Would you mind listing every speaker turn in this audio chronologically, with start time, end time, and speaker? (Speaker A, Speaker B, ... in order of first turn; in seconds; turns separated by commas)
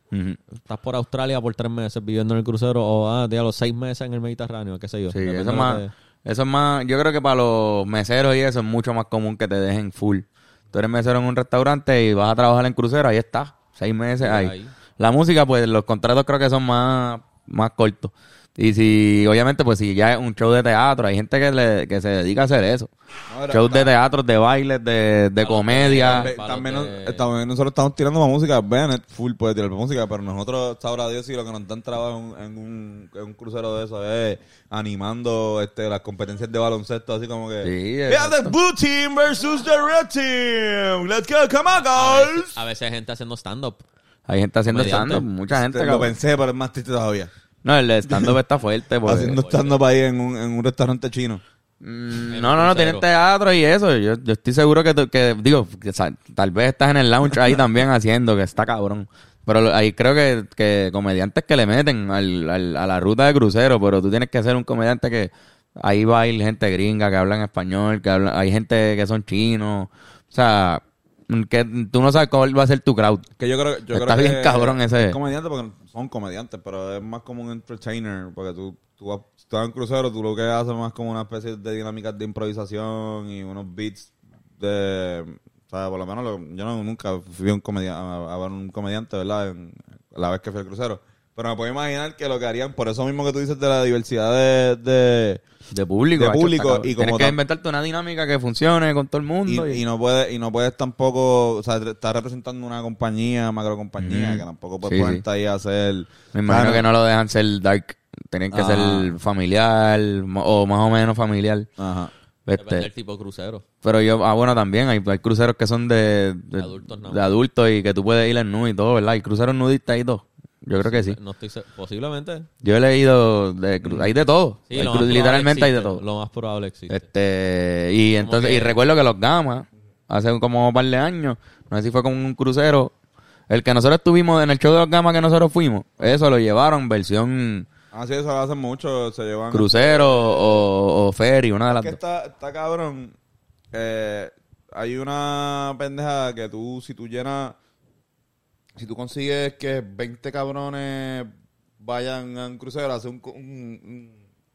Speaker A: 0.1-0.4, Speaker B: 0.6-5.9, Speaker A: 5.1-22.9, Speaker B: 14.2-14.7, Speaker C: 23.3-23.9, Speaker A: 23.5-26.3, Speaker B: 25.4-27.2, Speaker C: 25.9-42.5, Speaker A: 37.6-38.6, Speaker B: 41.9-43.8, Speaker A: 44.3-46.1, Speaker B: 44.7-45.3, Speaker C: 45.5-47.3, Speaker A: 47.6-49.4, Speaker C: 48.1-48.4, Speaker C: 49.0-51.4, Speaker B: 49.3-49.8, Speaker A: 51.8-73.3, Speaker B: 52.3-53.1, Speaker C: 73.4-95.4, Speaker A: 73.9-75.2, Speaker A: 95.7-99.8, Speaker C: 96.2-97.4, Speaker C: 99.5-106.9, Speaker A: 104.0-105.2, Speaker A: 106.3-111.7, Speaker C: 108.5-109.1, Speaker C: 111.8-112.1, Speaker A: 112.5-112.9, Speaker B: 112.6-113.7, Speaker A: 113.8-121.2, Speaker B: 116.6-117.3, Speaker B: 120.8-122.5, Speaker A: 122.6-126.0, Speaker B: 124.7-127.0, Speaker A: 126.9-132.9, Speaker B: 128.2-128.8, Speaker A: 133.5-137.7, Speaker C: 137.9-140.6, Speaker A: 139.5-142.0, Speaker C: 141.7-143.1, Speaker C: 143.7-147.6, Speaker C: 148.8-154.1